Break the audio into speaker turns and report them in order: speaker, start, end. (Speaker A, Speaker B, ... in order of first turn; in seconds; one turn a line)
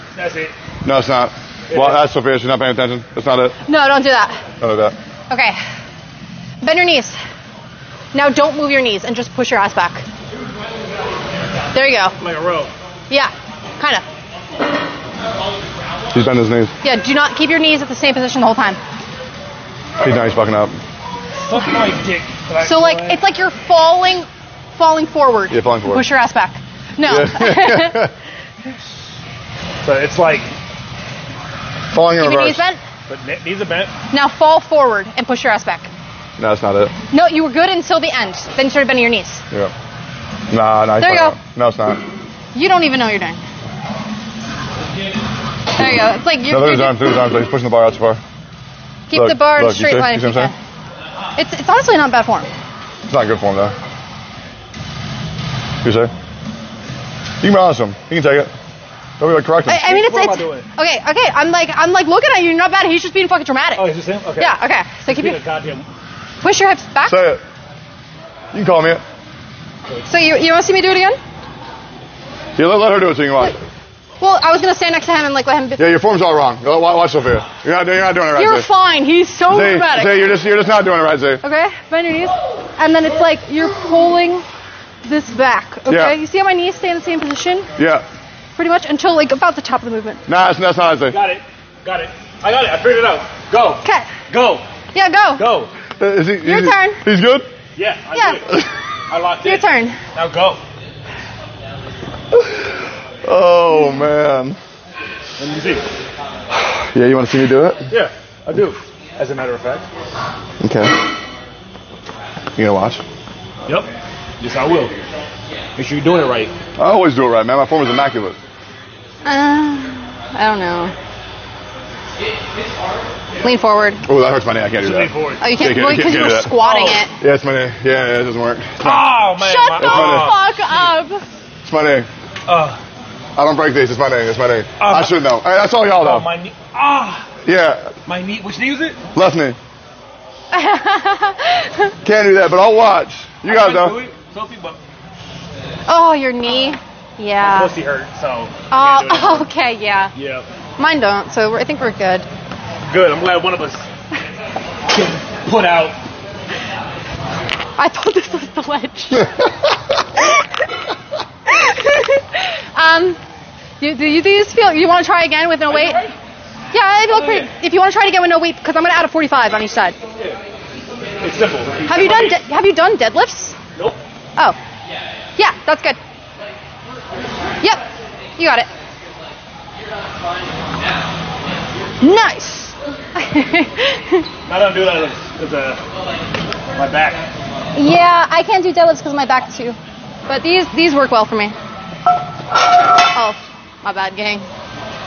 Speaker A: 0.1-0.5
Speaker B: 0.8-3.5
Speaker A: 1.7-2.0
Speaker C: 3.7-4.4
Speaker B: 4.6-4.9
Speaker C: 5.3-5.6
Speaker C: 6.6-7.2
Speaker C: 8.1-10.1
Speaker C: 11.7-12.1
Speaker A: 12.2-12.7
Speaker C: 13.1-14.0
Speaker B: 16.1-16.7
Speaker C: 16.8-18.8
Speaker B: 20.0-20.8
Speaker A: 21.4-23.2
Speaker C: 22.6-28.1
Speaker B: 25.5-26.1
Speaker B: 27.1-28.1
Speaker A: 29.8-30.5
Speaker B: 31.9-32.6
Speaker C: 32.2-32.8
Speaker A: 33.1-33.9
Speaker C: 34.1-35.9
Speaker B: 36.4-36.9
Speaker C: 37.1-39.4
Speaker B: 40.5-42.0
Speaker C: 41.0-41.4
Speaker C: 42.5-43.4
Speaker C: 45.8-47.1
Speaker B: 46.5-48.2
Speaker C: 49.1-50.5
Speaker B: 49.1-50.5
Speaker C: 51.4-52.5
Speaker B: 53.1-53.7
Speaker B: 55.8-56.1
Speaker B: 57.4-58.5
Speaker B: 59.2-59.9
Speaker C: 59.7-65.4
Speaker A: 59.8-60.6
Speaker A: 63.8-65.8
Speaker C: 66.4-67.3
Speaker B: 67.0-67.4
Speaker B: 68.5-69.0
Speaker C: 70.1-71.2
Speaker B: 72.6-73.6
Speaker C: 74.2-75.9
Speaker B: 75.8-78.7
Speaker C: 78.3-80.4
Speaker B: 79.5-81.4
Speaker C: 81.4-84.4
Speaker C: 85.0-87.7
Speaker B: 85.9-86.1
Speaker B: 87.8-88.0
Speaker C: 88.5-90.2
Speaker B: 90.3-91.2
Speaker A: 91.1-94.7
Speaker C: 93.8-94.1
Speaker C: 94.9-95.5
Speaker A: 95.4-95.7
Speaker B: 96.0-97.5
Speaker C: 96.4-97.0
Speaker A: 97.8-100.6
Speaker C: 98.1-98.4
Speaker C: 99.4-100.0
Speaker B: 102.3-102.6
Speaker B: 103.2-104.6
Speaker A: 105.4-105.9
Speaker B: 106.8-107.9
Speaker A: 107.9-109.9
Speaker B: 110.6-111.0
Speaker B: 112.5-113.0
Speaker A: 113.7-115.0
Speaker A: 115.8-116.5
Speaker B: 116.8-118.4
Speaker C: 119.2-120.9
Speaker C: 123.4-124.0
Speaker B: 124.0-126.6
Speaker A: 124.8-125.5
Speaker C: 125.4-127.1
Speaker A: 126.6-127.0
Speaker B: 127.2-129.2
Speaker A: 128.8-130.9
Speaker C: 129.4-131.2
Speaker B: 129.8-130.3
Speaker B: 131.6-132.1
Speaker A: 132.5-132.8
Speaker B: 133.3-136.3
Speaker A: 134.8-135.3
Speaker A: 136.0-137.3
Speaker B: 137.4-137.9
Speaker A: 138.1-139.0
Speaker B: 139.1-139.6
Speaker C: 140.5-141.9
Speaker B: 142.0-144.0
Speaker A: 143.4-144.8
Speaker C: 145.9-147.7
Speaker A: 147.4-149.5
Speaker C: 148.7-150.1
Speaker A: 150.1-150.5
Speaker C: 150.8-152.3
Speaker A: 152.8-153.8
Speaker A: 154.9-156.0
Speaker C: 157.8-159.4
Speaker C: 161.5-163.2
Speaker C: 163.8-166.1
Speaker A: 165.7-166.1
Speaker C: 166.7-170.0
Speaker A: 167.1-167.5
Speaker A: 171.2-172.4
Speaker C: 171.9-173.6
Speaker A: 173.7-174.0
Speaker C: 175.4-176.0
Speaker C: 178.4-178.7
Speaker C: 182.0-184.2
Speaker A: 184.4-185.8
Speaker A: 186.8-187.2
Speaker C: 187.8-191.6
Speaker C: 193.0-194.5